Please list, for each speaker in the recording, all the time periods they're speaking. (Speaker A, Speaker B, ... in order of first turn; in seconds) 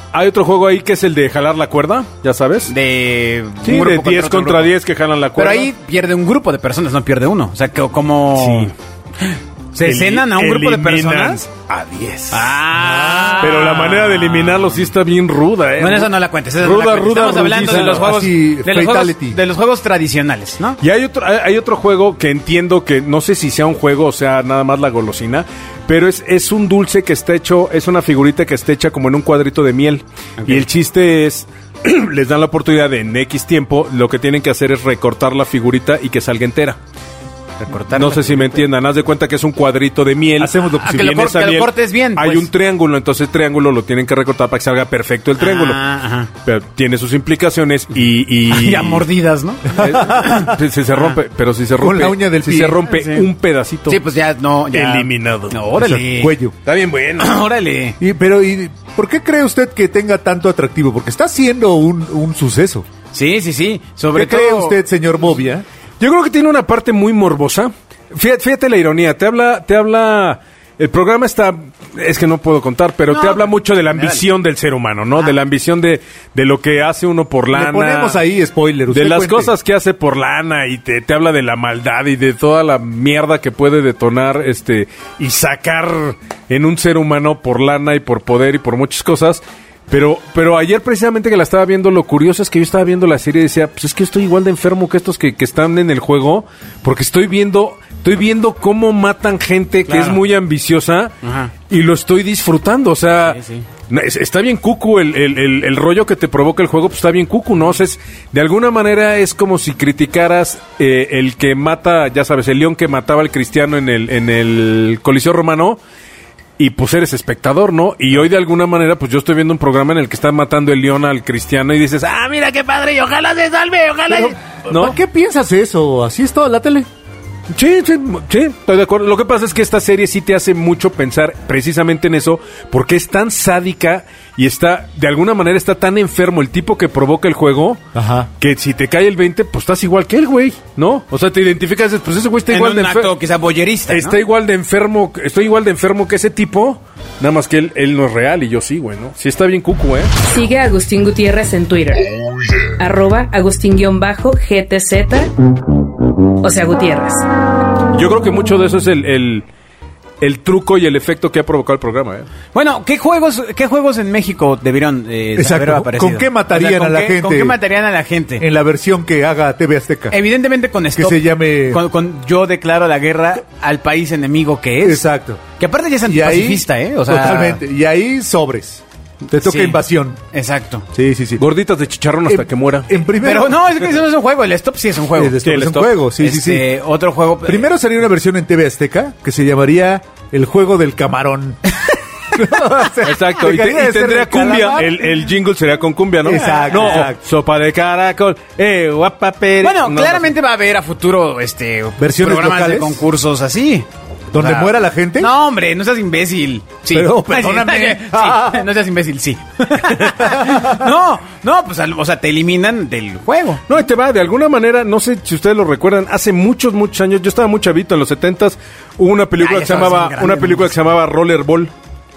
Speaker A: 0.1-2.7, 3.6-5.7, 8.3-8.7, 9.8-12.6, 13.4-18.1, 20.8-36.8, 37.9-45.8, 46.4-49.0, 49.8-54.0, 54.7-55.6, 56.6-57.4, 66.0-78.2, 78.9-101.1, 101.7-115.8, 116.6-125.0, 127.5-137.8, 138.4-143.1, 143.9-150.1, 157.9-159.5, 160.2-162.3, 181.4-182.9, 185.4-185.9, 193.0-200.3, 213.7-221.7
Speaker B: 2.7-4.7, 5.4-11.4, 12.3-14.9, 15.8-20.8, 30.4-30.7, 37.6-38.7, 40.8-42.5, 45.4-46.3, 48.5-51.2, 52.8-53.3, 53.9-56.3, 57.2-58.0, 63.1-64.8, 73.1-74.2, 99.9-100.2, 101.2-101.5, 103.3-103.7, 142.5-144.2, 162.5-168.5, 170.1-175.0, 175.6-177.6, 179.4-179.8, 180.3-180.9, 183.2-185.4, 186.2-187.7, 196.3-197.1, 199.6-213.6, 219.4-220.7
Speaker C: 12.8-13.5, 17.8-19.4, 40.4-41.1, 49.7-50.6, 51.8-52.8, 55.8-56.5, 58.0-62.9, 64.1-65.7, 77.5-79.5, 124.1-126.9, 137.9-138.3, 165.4-167.6, 168.4-170.2, 170.9-171.8, 174.8-175.4, 176.1-180.2, 180.9-181.4, 182.3-183.7, 185.2-186.7, 187.4-191.6, 192.3-195.1, 196.2-197.2, 202.0-203.0, 204.3-205.3, 206.9-208.7, 210.2-210.8
Speaker D: 150.2-152.1, 152.7-155.3, 156.4-157.2